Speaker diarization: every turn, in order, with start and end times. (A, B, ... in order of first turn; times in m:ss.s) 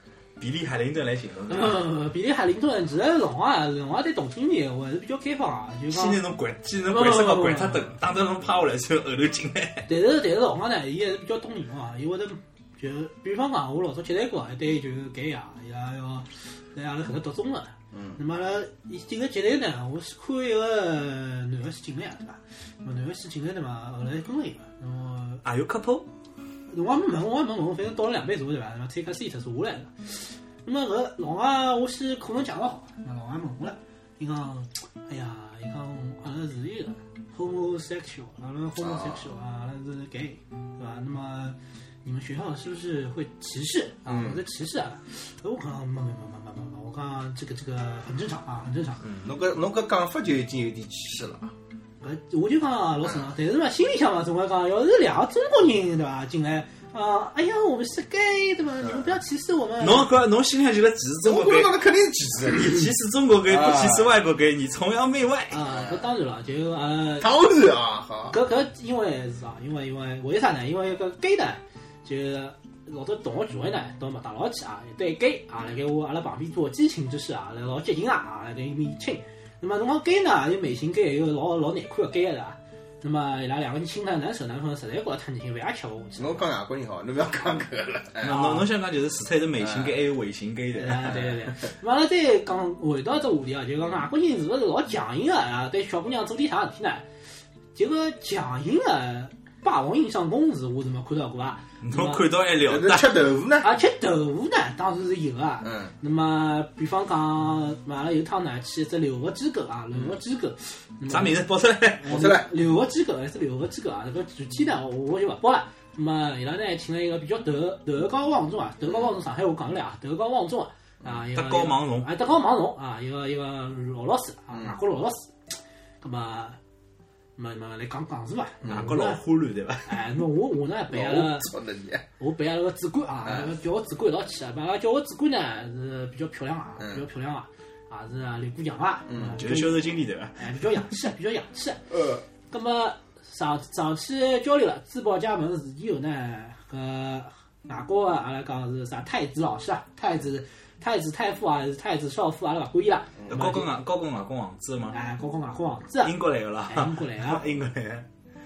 0:00.4-0:01.9 A
0:01.5-0:06.2 B
0:05.9-0:09.9 A
0:06.9-0:07.9 B
0:09.9-0:25.4 B
0:17.9-0:18.2 C
0:25.4-0:26.1 A
0:26.7-0:49.0 B
0:38.8-0:39.3 C
0:44.0-0:44.4 C
0:49.0-0:51.5 C
0:52.0-1:00.1 B
0:59.8-1:01.8 A
1:01.2-1:02.9 C
1:02.5-1:05.6 A
1:03.4-1:04.1 C
1:05.5-1:07.3 B
1:05.6-1:06.0 C
1:07.2-1:08.4 C
1:08.3-1:26.4 B
1:26.2-1:28.6 C
1:28.2-1:31.3 A
1:29.6-1:30.0 C
1:30.8-1:37.0 B
1:37.7-1:42.2 B
1:41.8-1:43.1 A
1:42.6-1:43.7 C
1:43.6-1:51.4 B
1:45.6-1:45.9 C
1:51.1-1:52.0 A
1:52.0-2:06.6 B
1:52.0-1:52.5 C
2:01.3-2:02.1 A
2:04.5-2:04.8 C
2:07.4-2:09.2 B
2:08.6-2:08.9 C
2:08.6-2:10.0 A
2:09.8-2:11.5 B
2:10.9-2:12.0 C
2:12.2-2:21.8 B
2:13.2-2:13.5 C
2:16.8-2:17.0 C
2:19.1-2:19.4 C
2:19.2-2:20.8 A
2:21.9-2:22.2 C
2:22.5-2:33.7 B
2:33.3-2:35.0 A
2:34.9-2:37.4 B
2:36.0-2:38.0 A